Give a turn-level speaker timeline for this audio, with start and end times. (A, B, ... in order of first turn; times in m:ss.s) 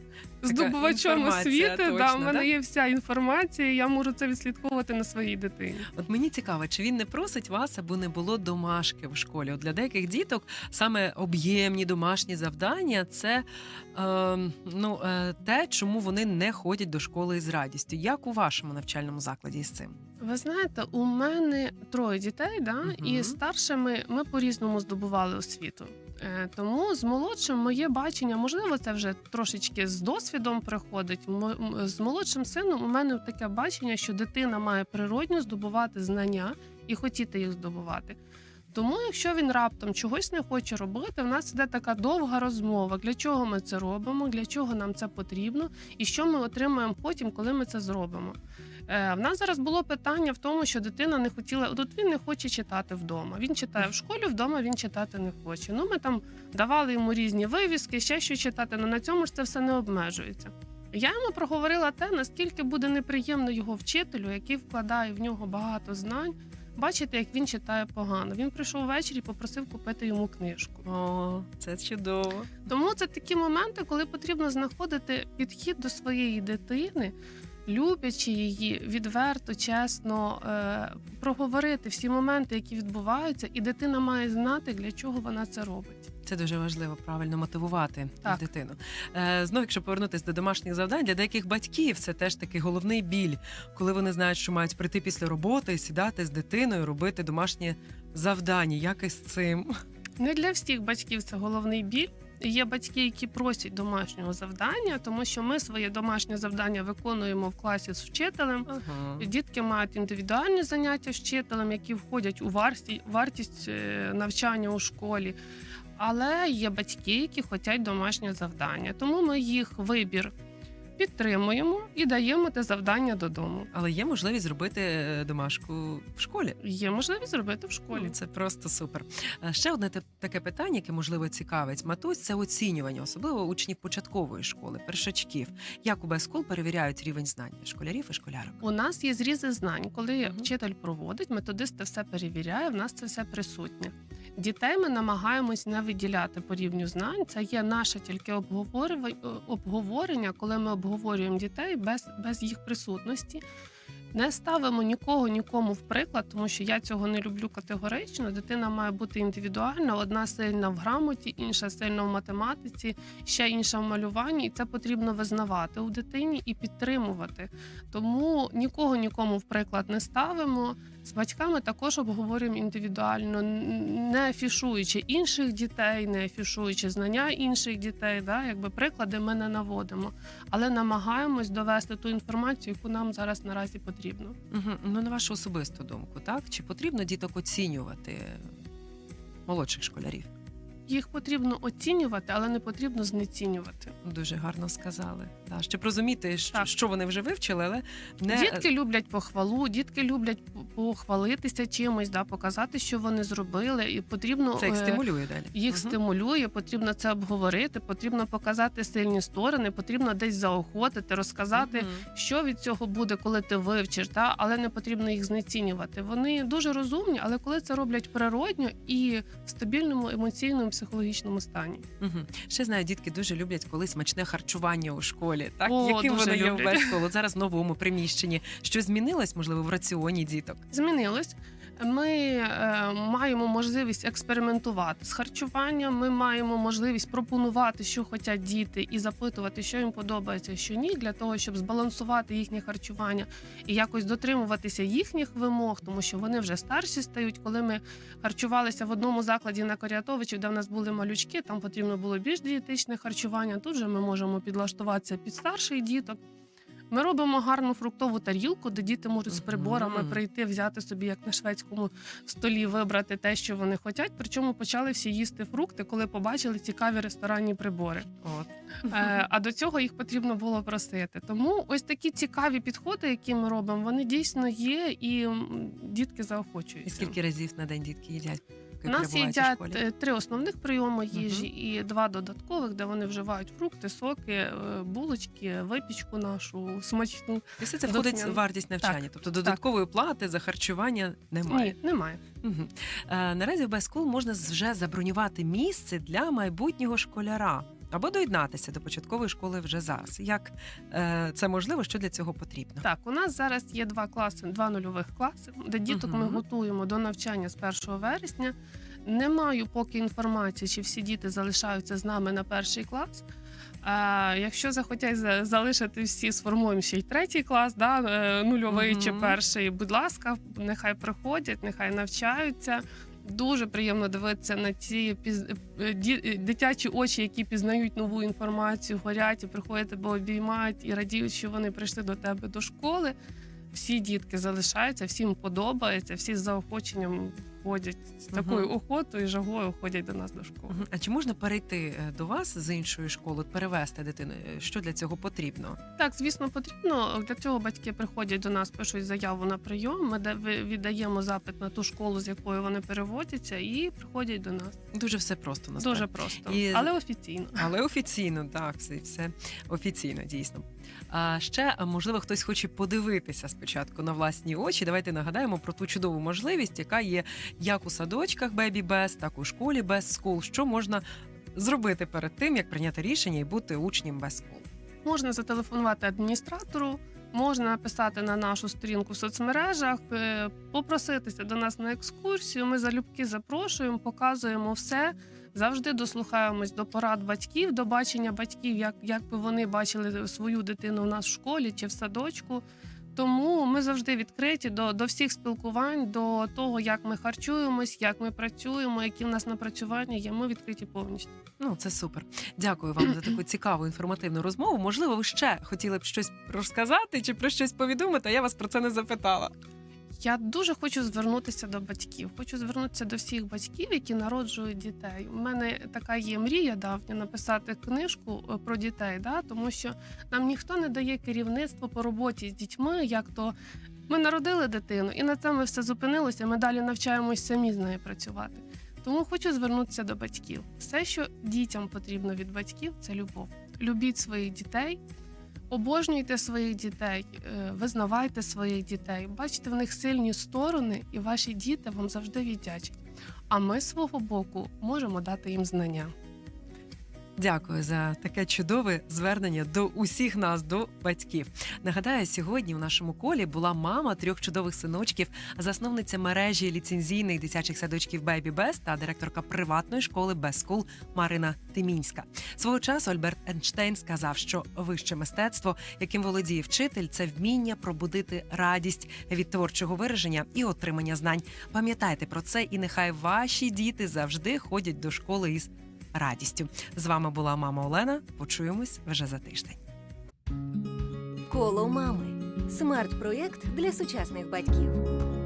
0:00.4-0:05.9 A
0:00.4-0:02.5 B
0:06.0-0:19.9 B
0:20.2-0:38.2 A
0:22.8-0:23.4 B
0:38.7-1:10.8 A
1:10.8-1:12.5 B
1:12.6-1:17.1 A
1:17.7-1:26.1 A
1:26.2-1:39.7 B
1:40.2-1:55.4 A
1:48.7-1:49.3 B
1:56.0-2:00.3 A
2:01.0-2:03.7 A
2:03.7-2:06.6 B
2:06.6-2:08.1 A
2:07.9-2:18.6 B
2:18.6-2:33.4 A
2:34.1-3:04.4 A
3:04.5-3:08.5 B
3:09.5-3:10.3 B
3:10.9-3:13.9 A
3:14.0-3:18.6 B
3:18.3-3:41.8 A
3:24.6-3:26.0 B
3:31.5-3:32.0 B
3:42.0-3:50.6 B
3:45.6-3:47.0 A
3:50.7-4:16.2 A
4:16.9-4:28.1 A
4:19.3-4:20.2 B
4:28.2-4:29.1 B
4:28.8-4:37.2 A
4:36.8-4:39.8 B
4:38.8-4:49.6 A
4:41.1-4:41.5 B
4:47.6-4:51.8 B
4:51.4-4:52.2 A
4:52.4-5:02.8 B
5:02.8-5:13.2 A
5:05.9-5:06.4 B
5:13.8-5:33.1 A
5:18.7-5:19.4 B
5:33.7-5:40.8 A
5:38.3-5:38.7 B
5:40.7-5:45.8 B
5:46.0-5:54.8 A
5:54.9-5:56.9 B
5:55.8-5:57.7 A
5:57.5-6:11.0 B
6:11.5-6:14.6 B
6:15.0-6:32.6 A
6:33.1-6:41.3 A
6:41.6-6:49.5 B
6:50.1-7:03.5 A
7:04.1-7:15.0 A
7:15.7-7:26.1 A
7:27.4-7:59.8 B
8:01.5-8:05.0 C